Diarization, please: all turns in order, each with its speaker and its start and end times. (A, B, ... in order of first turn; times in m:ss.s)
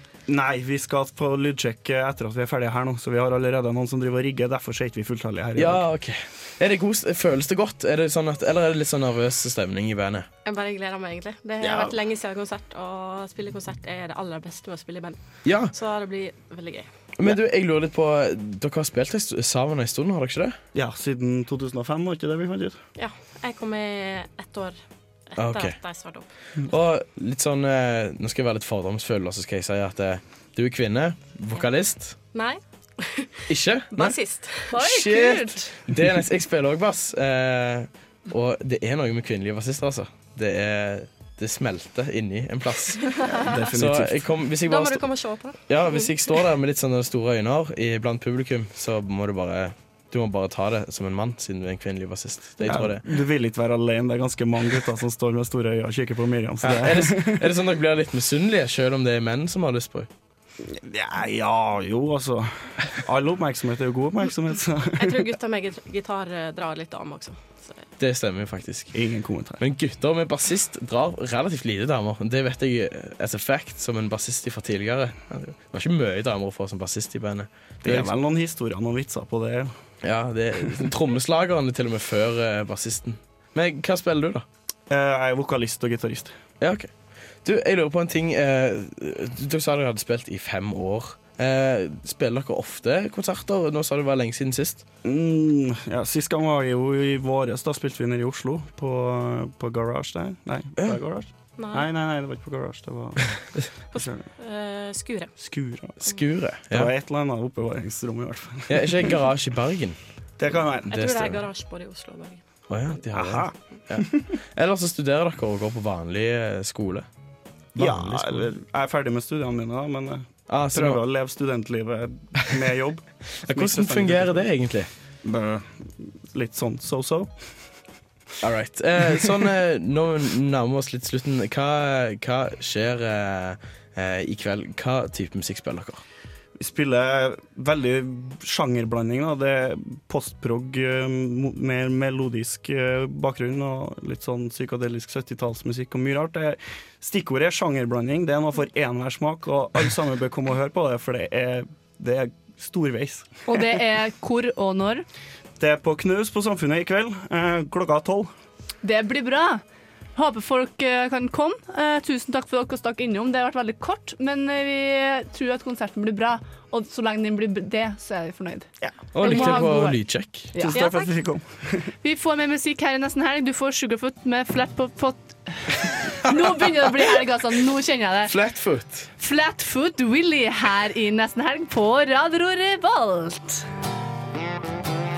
0:00.3-0:05.9 A
0:05.6-0:10.3 B
0:10.4-0:15.2 C
0:15.4-0:15.7 B
0:15.7-0:16.9 C
0:17.2-0:20.6 B
0:20.7-0:22.8 A
0:23.0-0:24.8 C
0:25.3-0:26.2 C
0:25.4-0:25.8 B
0:26.7-0:32.2 B
0:32.3-0:34.8 C
0:33.5-0:34.2 B
0:34.7-0:35.7 D
0:34.7-0:45.1 B
0:43.3-0:44.2 A
0:44.6-0:46.1 C
0:45.7-0:53.0 B
0:52.6-0:57.4 A
0:56.6-1:00.1 B
1:00.6-1:05.2 A
1:05.0-1:07.8 C
1:08.0-1:08.9 B
1:08.9-1:09.6 A
1:09.6-1:18.1 B
1:17.8-1:19.7 A
1:20.0-1:24.4 B
1:24.9-1:26.4 A
1:26.6-1:26.9 B
1:27.4-1:34.8 B
1:35.0-1:44.3 A
1:41.6-1:41.9 C
1:43.9-1:45.3 C
1:45.4-1:46.0 A
1:46.0-1:46.9 B
1:46.6-1:49.1 A
1:48.7-1:50.0 B
1:50.4-1:50.9 A
1:50.9-1:52.4 C
1:50.9-1:51.4 B
1:52.7-1:57.1 B
1:53.1-1:53.5 A
1:57.7-1:58.5 B
1:57.8-2:04.5 A
2:00.5-2:01.0 B
2:03.4-2:04.9 B
2:05.2-2:07.7 A
2:08.4-2:16.0 B
2:16.6-2:33.3 A
2:33.5-2:35.0 D
2:35.6-2:38.3 A
2:38.8-2:39.6 D
2:40.1-2:48.7 D
2:48.8-2:49.6 A
2:49.1-2:50.5 B
2:49.2-2:50.0 D
2:50.5-2:51.0 D
2:50.6-2:51.9 A
2:52.0-2:58.3 D
2:58.2-2:59.1 B
2:59.2-3:03.6 D